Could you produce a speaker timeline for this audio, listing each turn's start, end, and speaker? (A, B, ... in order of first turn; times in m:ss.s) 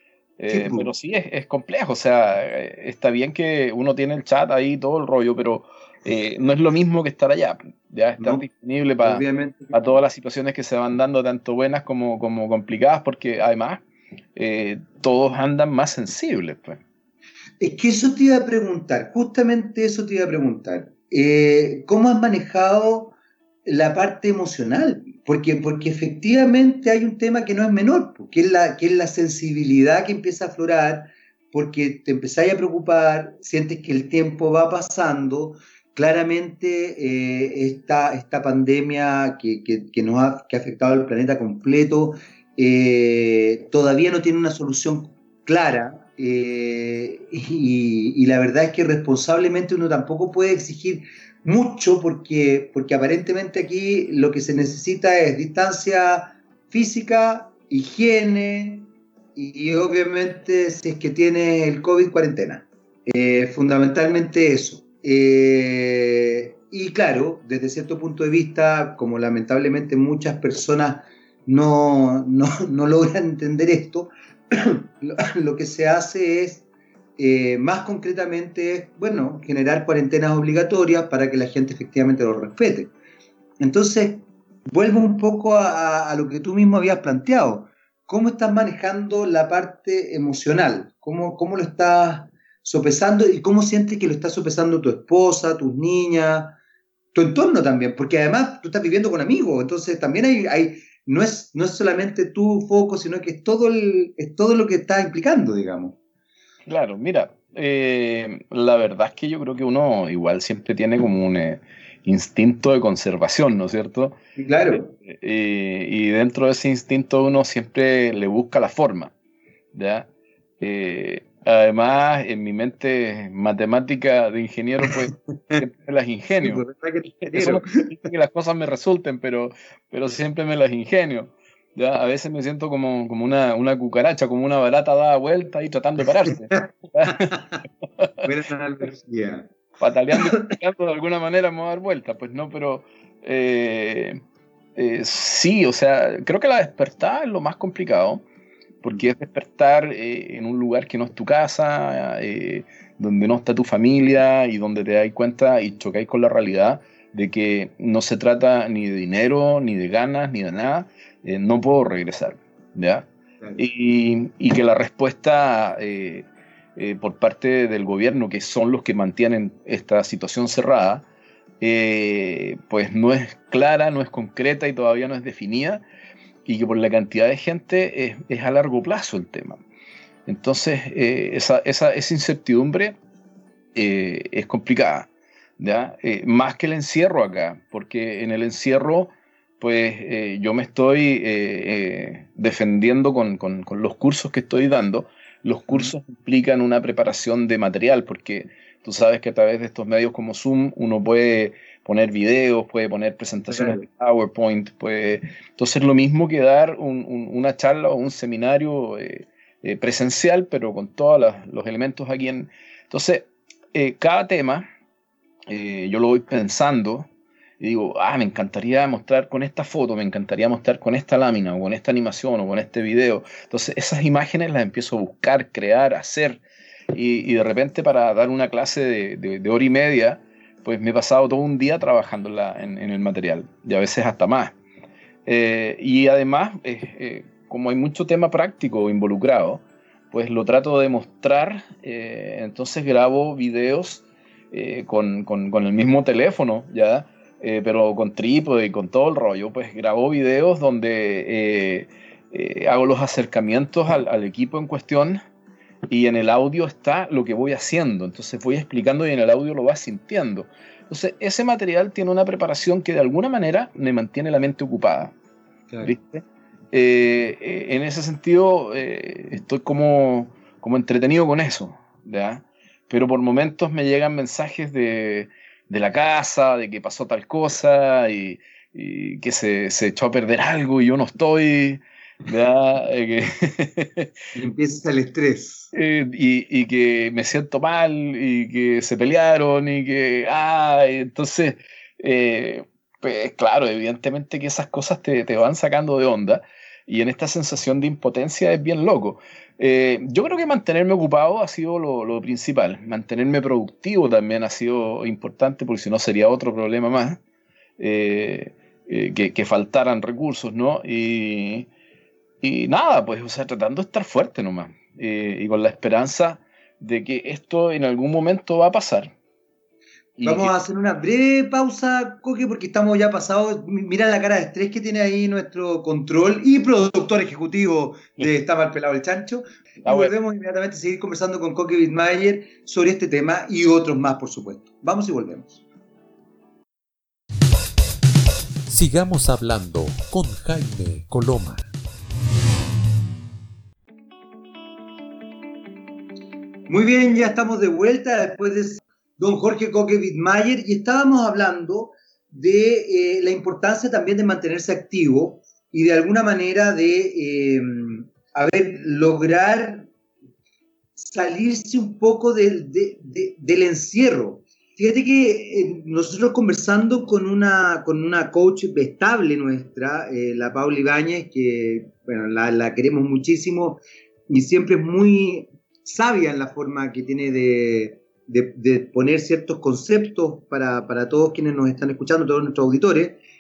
0:00.4-0:13.8 A
0:00.5-0:00.9 B
0:08.2-0:08.5 B
0:09.0-0:10.0 B
0:14.3-0:16.8 A
0:17.6-1:16.6 B
1:17.2-1:22.9 B
1:23.6-1:36.6 B
1:37.1-1:46.0 B
1:46.6-1:54.2 A
1:54.4-1:54.9 B
1:54.7-1:59.1 A
1:59.7-2:00.1 A
2:00.6-2:06.6 A
2:06.4-2:08.1 B
2:07.2-2:17.3 A
2:16.3-2:17.6 B
2:17.8-2:18.1 A
2:18.2-2:19.5 B
2:19.8-2:24.2 A
2:20.1-2:20.5 B
2:24.7-2:28.2 A
2:28.8-2:51.0 A
2:51.6-2:55.8 A
2:56.4-2:59.6 A
3:00.2-3:03.0 A
3:03.7-3:34.6 A
3:23.5-3:23.8 B
3:35.5-3:37.1 A
3:37.6-3:46.4 A
3:46.9-3:54.6 A
3:55.2-4:15.2 A
4:15.9-4:25.1 A
4:25.8-4:44.1 A
4:44.3-4:45.7 B
4:45.7-5:07.2 A
5:07.8-5:11.7 A
5:12.4-5:19.1 A
5:20.2-5:20.5 A
5:20.2-5:35.6 B
5:29.8-5:30.1 A
5:38.7-5:41.7 C
5:46.7-5:59.9 B
6:01.0-6:23.2 B